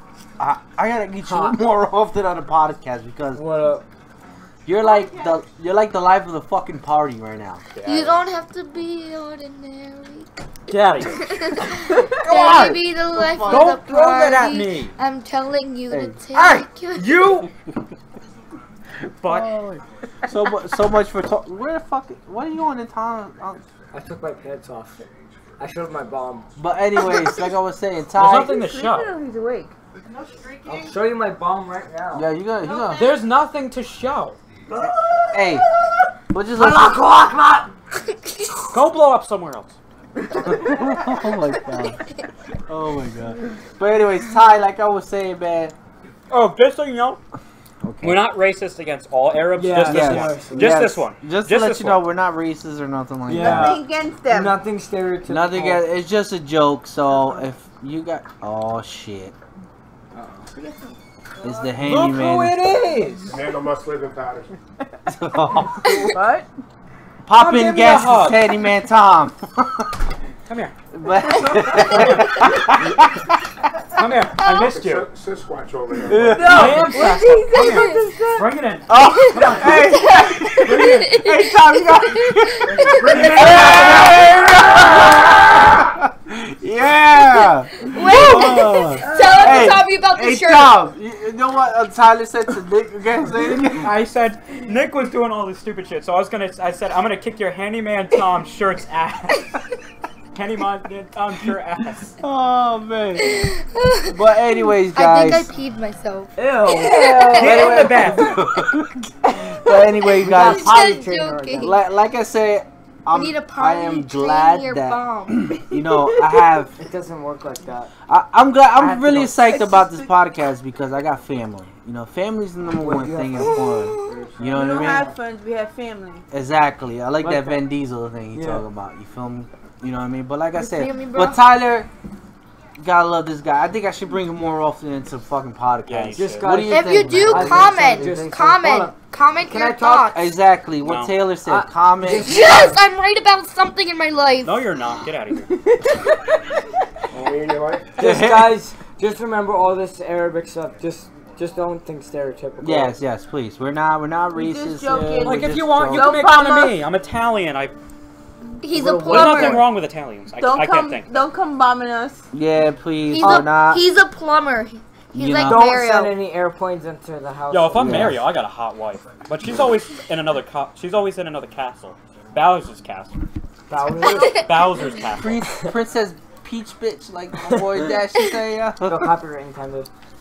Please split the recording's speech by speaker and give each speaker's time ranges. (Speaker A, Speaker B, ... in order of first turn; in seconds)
Speaker A: 0.4-3.4, 4.7-7.7, 12.2-13.8, 15.9-16.2, 20.3-23.6, 26.6-28.6, 32.1-33.1, 34.8-35.6, 36.3-37.0, 40.4-42.0, 42.7-45.8, 47.8-48.3, 49.8-53.8, 55.3-59.3, 61.4-62.6, 65.1-66.0, 67.3-70.0, 70.9-73.3, 76.1-77.1, 78.9-94.0, 102.2-103.5, 104.1-105.5, 107.3-111.0, 111.6-116.7, 118.1-125.1, 126.3-131.9, 132.8-138.3, 140.1-142.3, 148.0-148.6, 152.6-156.3, 162.3-163.8, 165.1-165.7, 167.7-168.2, 175.2-179.1
Speaker B: 1.3-1.6, 3.4-3.9, 10.7-11.1, 23.9-25.1, 25.6-26.5, 30.7-32.3, 34.7-35.6, 36.5-37.7, 49.6-50.8, 53.3-55.8, 60.1-60.5, 106.4-108.2, 110.1-111.8, 116.8-117.9, 118.8-119.4, 122.8-125.2, 127.2-127.6, 128.3-128.7, 136.2-138.9, 139.5-140.1, 141.5-142.8, 148.0-153.0, 158.7-159.6, 165.4-168.1, 173.7-174.4, 177.4-177.8, 178.8-179.9
Speaker C: 4.7-5.4, 30.0-31.0, 32.6-33.3
Speaker D: 7.8-8.2, 10.7-11.1, 13.4-14.9, 16.3-17.5, 19.2-19.8, 28.1-29.1, 32.9-34.4, 38.7-39.8, 46.3-47.2, 48.0-52.0, 61.8-63.4, 67.3-68.4, 70.5-70.7, 71.3-73.0, 73.9-75.1, 76.3-81.3, 82.8-84.4, 93.6-99.5, 100.3-102.2, 107.0-108.4, 135.9-136.7, 140.8-141.1, 144.4-145.5, 155.2-157.8, 159.0-161.1, 167.5-173.2, 174.2-175.5
Speaker E: 7.8-10.3, 11.2-17.2, 38.3-38.6, 81.0-81.3, 82.2-83.2, 87.4-90.8, 103.2-104.3, 104.9-107.8, 110.2-111.7, 113.1-115.5, 123.6-124.2, 130.6-131.4, 136.7-140.3, 142.1-144.6, 158.6-159.7, 163.1-166.1, 174.1-174.4
Speaker F: 27.0-27.4, 28.2-29.7, 53.3-54.6, 60.5-61.0, 65.8-66.5, 76.2-78.5, 88.1-89.8, 115.9-116.4, 119.5-120.1, 124.4-126.2, 154.3-156.8, 160.4-162.3
Speaker G: 63.3-64.5, 74.6-76.6, 147.1-147.9